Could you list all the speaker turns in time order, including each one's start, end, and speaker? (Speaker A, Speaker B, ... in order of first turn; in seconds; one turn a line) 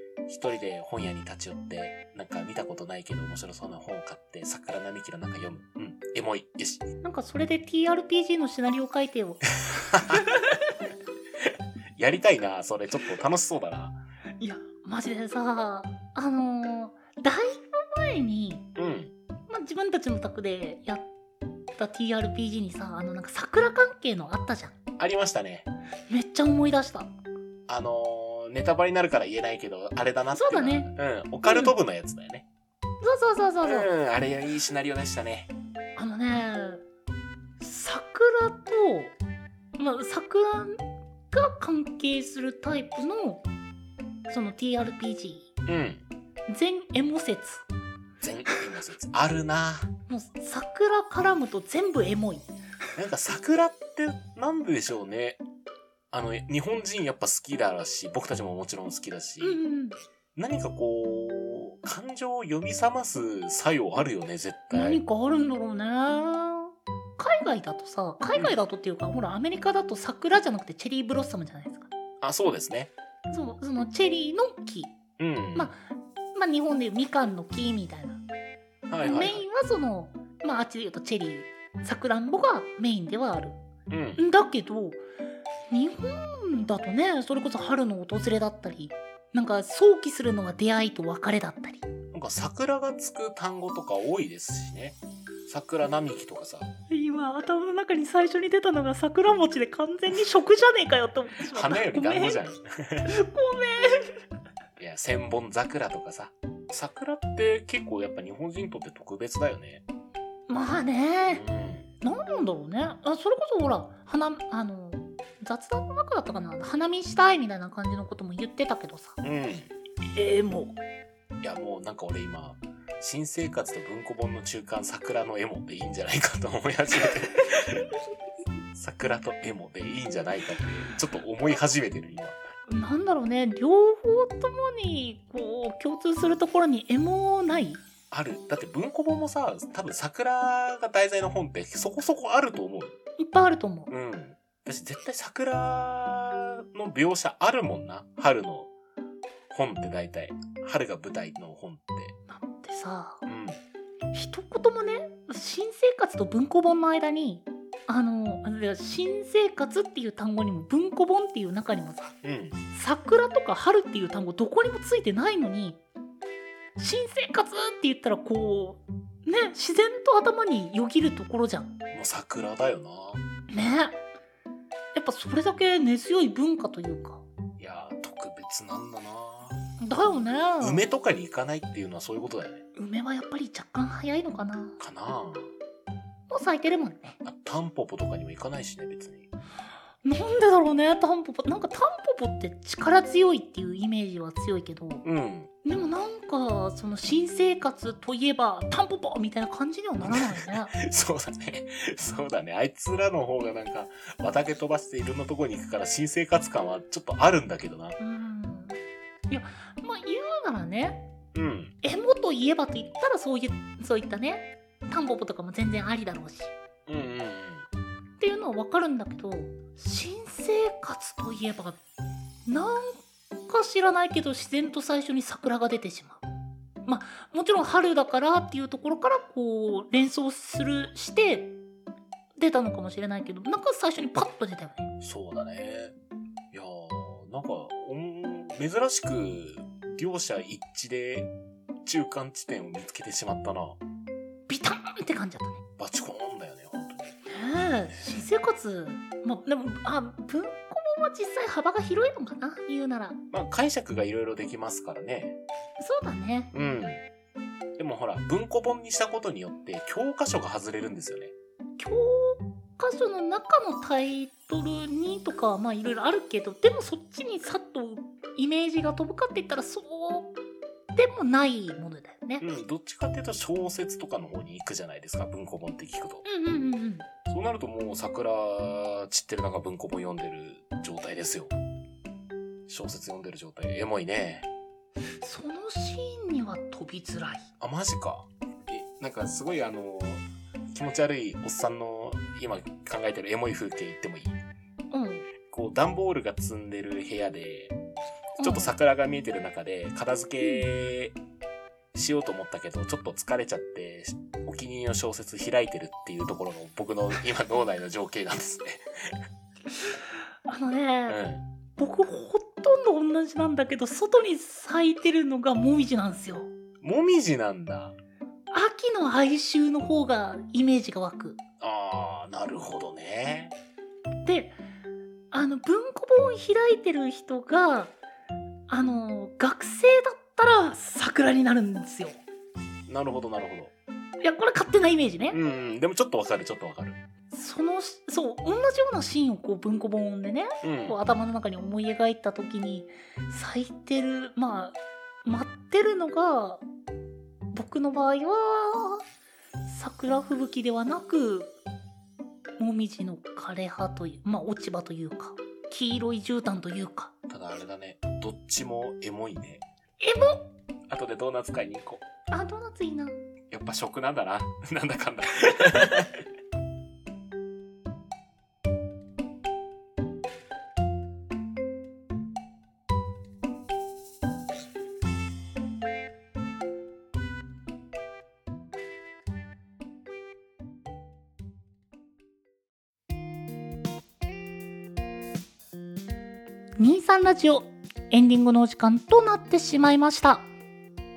Speaker A: 0.3-6.9
Speaker B: 7.0-9.4
Speaker A: 9.8-10.2
Speaker B: 10.1-10.6
Speaker A: 12.0-14.0
Speaker B: 14.4-18.7
Speaker A: 18.8-19.1
Speaker B: 19.5-21.1
Speaker B: 21.8-24.8
Speaker A: 25.0-25.7
Speaker B: 26.1-27.1
Speaker A: 27.7-32.5
Speaker B: 30.3-30.9
Speaker B: 31.4-31.8
Speaker B: 33.0-33.9
Speaker A: 33.6-35.5
Speaker B: 36.0-36.8
Speaker B: 37.6-39.1
Speaker B: 39.8-43.5
Speaker B: 44.3-45.5
Speaker A: 45.7-46.0
Speaker B: 46.5-47.6
Speaker A: 48.2-49.9
Speaker B: 50.1-52.5
Speaker A: 53.0-55.4
Speaker A: 56.1-59.6
Speaker B: 59.4-60.0
Speaker A: 60.4-65.0
Speaker B: 64.7-71.9
Speaker A: 72.2-72.9
Speaker B: 73.3-75.0
Speaker A: 75.2-75.7
Speaker B: 75.5-75.8
Speaker B: 76.3-78.2
Speaker A: 78.9-79.5
Speaker B: 79.0-83.6
Speaker A: 83.9-84.2
Speaker B: 84.2-85.0
Speaker B: 85.7-91.8
Speaker A: 92.1-96.7
Speaker B: 96.9-102.4
Speaker A: 101.5-103.1
Speaker B: 103.1-104.2
Speaker A: 104.8-109.8
Speaker B: 110.5-111.4
Speaker A: 111.3-111.9
Speaker B: 112.0-119.2
Speaker A: 119.2-119.7
Speaker B: 120.2-120.8
Speaker A: 121.4-127.9
Speaker A: 128.7-132.4
Speaker B: 132.7-137.8
Speaker A: 138.1-142.9
Speaker B: 143.2-143.9
Speaker A: 143.9-148.7
Speaker A: 149.5-152.2
Speaker B: 152.3-153.2
Speaker A: 153.2-153.6
Speaker B: 154.1-162.2
Speaker A: 162.2-162.6
Speaker B: 162.7-165.8
Speaker B: 166.8-171.7
Speaker A: 171.9-173.2
Speaker B: 173.5-174.0
Speaker B: 174.9-177.2
Speaker A: 177.6-179.6
Speaker B: 179.8-180.8
Speaker A: 180.6-182.7
Speaker B: 182.8-184.8
Speaker A: 184.8-185.5
Speaker B: 186.3-187.2
Speaker A: 187.2-189.3
Speaker B: 190.0-195.0
Speaker A: 195.0-195.5
Speaker B: 195.7-200.7
Speaker A: 200.0-208.0
Speaker B: 208.0-208.8
Speaker B: 209.3-211.1
Speaker A: 211.3-211.7
Speaker B: 211.8-216.5
Speaker A: 216.9-217.7
Speaker B: 218.2-221.8
Speaker B: 222.5-226.2
Speaker B: 226.9-231.6
Speaker B: 232.4-234.9
Speaker A: 235.0-235.9
Speaker A: 236.5-241.3
Speaker A: 241.8-243.8
Speaker B: 244.5-245.6
Speaker A: 245.8-247.2
Speaker B: 247.3-253.2
Speaker A: 253.3-255.4
Speaker B: 255.8-256.5
Speaker A: 256.5-257.0
Speaker A: 257.8-261.3
Speaker B: 261.8-270.4
Speaker B: 271.0-272.4
Speaker A: 272.4-276.2
Speaker B: 276.2-277.1
Speaker A: 277.2-281.5
Speaker A: 282.7-284.5
Speaker B: 285.2-287.5
Speaker A: 287.6-294.4
Speaker B: 294.9-295.3
Speaker A: 295.5-297.8
Speaker A: 298.4-301.2
Speaker B: 298.4-298.7
Speaker B: 300.4-300.7
Speaker A: 301.9-309.1
Speaker B: 310.5-311.2
Speaker A: 311.1-311.5
Speaker B: 311.8-316.5
Speaker A: 316.8-318.0
Speaker B: 318.5-321.4
Speaker A: 321.6-323.6
Speaker B: 324.2-324.6
Speaker B: 325.3-328.0
Speaker B: 328.7-332.2
Speaker A: 332.9-333.7
Speaker B: 334.2-335.4
Speaker A: 335.3-337.0
Speaker B: 337.3-346.6
Speaker A: 340.6-341.0
Speaker B: 347.5-349.0
Speaker B: 349.6-351.5
Speaker B: 352.6-357.1
Speaker A: 357.3-359.6
Speaker B: 360.0-360.4
Speaker A: 360.9-362.0
Speaker B: 362.3-363.2
Speaker A: 363.5-366.2
Speaker B: 386.8-390.5